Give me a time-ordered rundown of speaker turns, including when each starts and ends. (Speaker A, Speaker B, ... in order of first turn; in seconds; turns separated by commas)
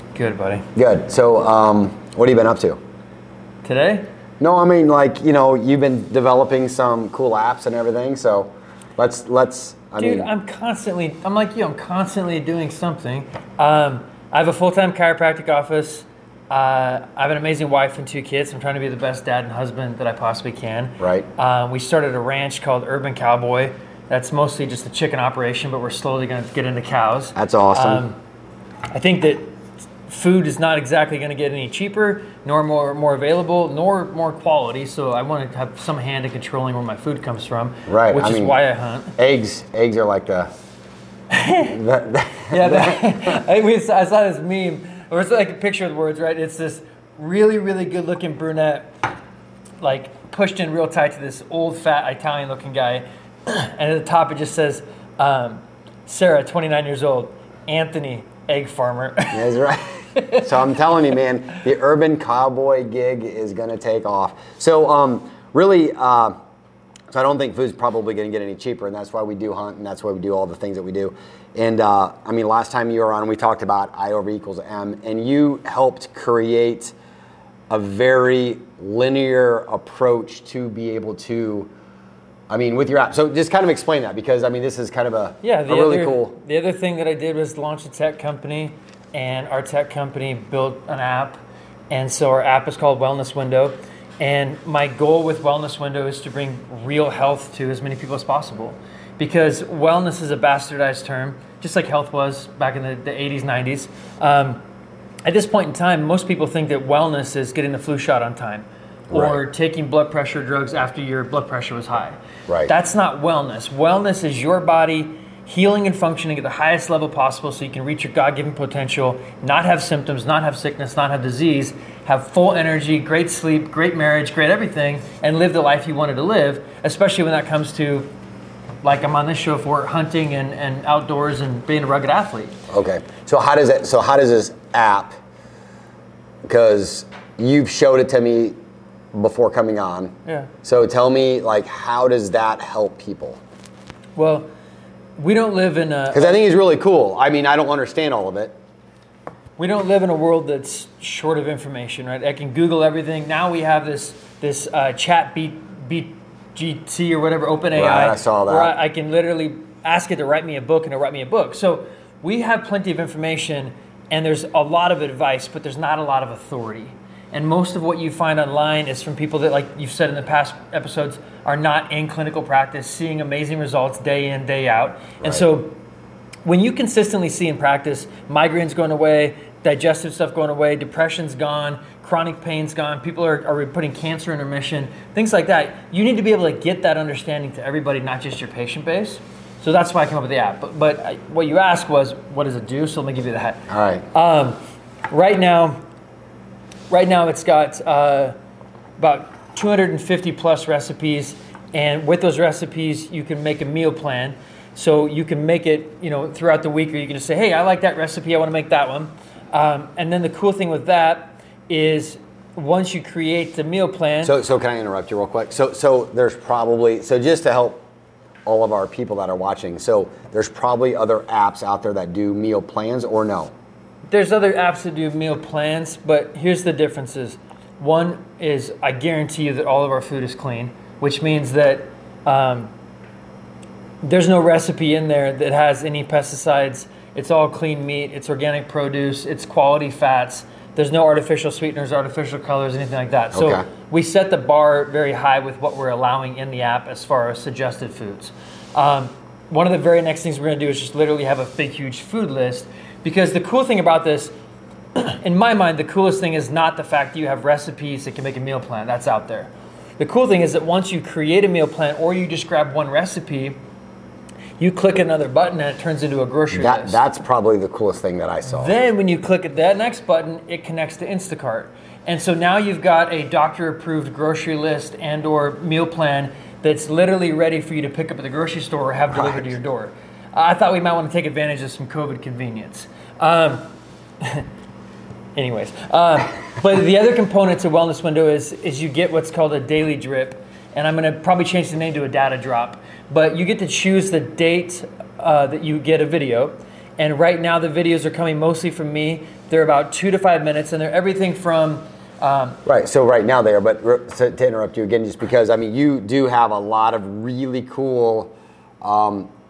Speaker A: 0.1-0.7, Speaker B: 0.8-2.8, Speaker A: 3.6-4.1, Speaker B: 4.4-10.3, Speaker A: 10.0-28.2, Speaker B: 21.0-21.3, Speaker B: 27.4-28.0, Speaker A: 28.9-29.5, Speaker A: 30.1-39.1, Speaker B: 37.9-38.6, Speaker B: 39.2-40.5, Speaker A: 41.3-41.8, Speaker B: 41.6-43.1, Speaker A: 42.5-49.0, Speaker A: 49.8-59.6, Speaker B: 59.3-66.4, Speaker A: 60.1-60.5, Speaker B: 67.1-76.9, Speaker B: 77.7-81.7, Speaker B: 82.5-86.4, Speaker A: 85.4-104.6, Speaker A: 105.2-128.1, Speaker B: 109.1-109.4, Speaker B: 112.5-112.7, Speaker A: 128.8-132.6, Speaker B: 132.7-135.1, Speaker B: 136.4-138.6, Speaker B: 139.1-143.4, Speaker A: 144.2-144.5, Speaker A: 145.2-146.4, Speaker B: 146.1-148.6, Speaker A: 149.6-175.8, Speaker B: 157.7-158.8, Speaker B: 175.2-175.5, Speaker A: 176.5-194.6, Speaker B: 193.7-194.1, Speaker A: 195.1-195.8, Speaker A: 196.9-198.3, Speaker A: 199.0-214.3, Speaker B: 214.2-217.8, Speaker B: 218.5-223.5, Speaker A: 224.1-232.7, Speaker A: 234.0-254.3, Speaker B: 243.3-243.7, Speaker A: 255.0-263.6, Speaker A: 264.6-267.0, Speaker B: 266.5-268.8, Speaker A: 268.5-283.7, Speaker A: 285.4-302.6, Speaker B: 302.7-309.3